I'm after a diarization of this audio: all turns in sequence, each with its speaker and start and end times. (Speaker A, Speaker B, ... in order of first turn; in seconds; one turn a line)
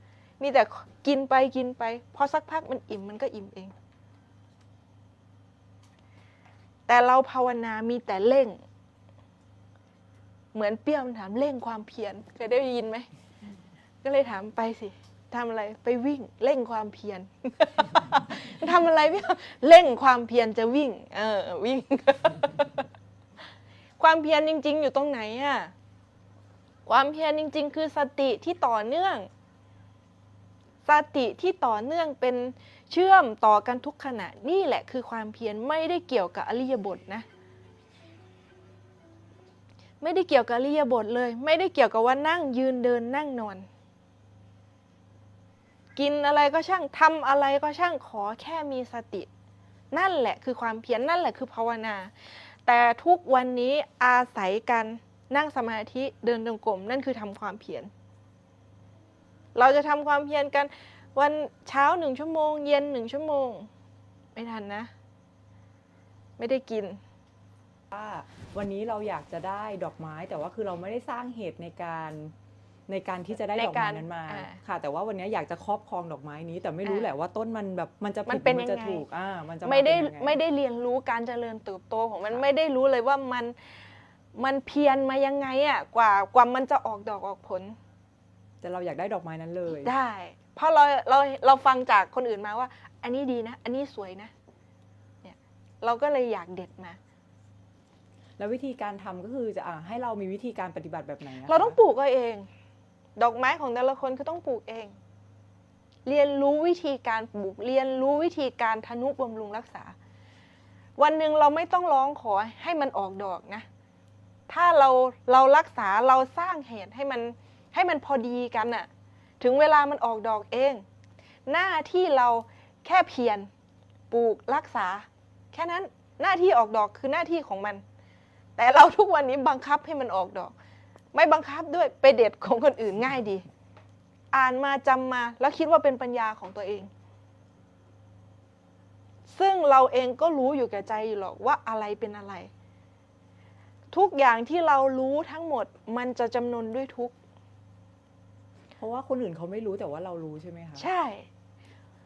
Speaker A: 0.4-3.7
Speaker A: 6.9-8.6
Speaker A: 10.5-13.1
Speaker A: 14.0-22.9
Speaker A: 24.0-25.7
Speaker A: 26.9-29.3
Speaker A: 30.9-37.3
Speaker A: 40.0-43.7
Speaker A: 46.0-49.3
Speaker A: 49.9-57.9
Speaker A: 59.5-63.7
Speaker A: 64.3-64.9
Speaker A: 66.4-67.0
Speaker B: 67.9-72.3
Speaker B: 72.9-80.4
Speaker A: 73.5-74.6
Speaker A: 76.8-77.1
Speaker A: 78.3-79.0
Speaker A: 79.7-83.6
Speaker A: 84.3-87.8
Speaker B: 88.6-89.9
Speaker A: 89.8-94.3
Speaker A: 95.2-97.0
Speaker B: 98.4-101.8
Speaker A: 101.5-102.5
Speaker A: 103.2-105.0
Speaker A: 106.0-110.0
Speaker A: 111.0-113.7
Speaker A: 114.5-118.9
Speaker A: 119.4-120.8
Speaker A: 121.5-123.5
Speaker A: 124.1-127.8
Speaker A: 128.6-130.5
Speaker A: 131.1-133.4
Speaker A: 134.3-136.9
Speaker A: 139.3-142.5
Speaker A: 143.9-147.1
Speaker B: 148.8-150.9
Speaker A: 150.8-151.3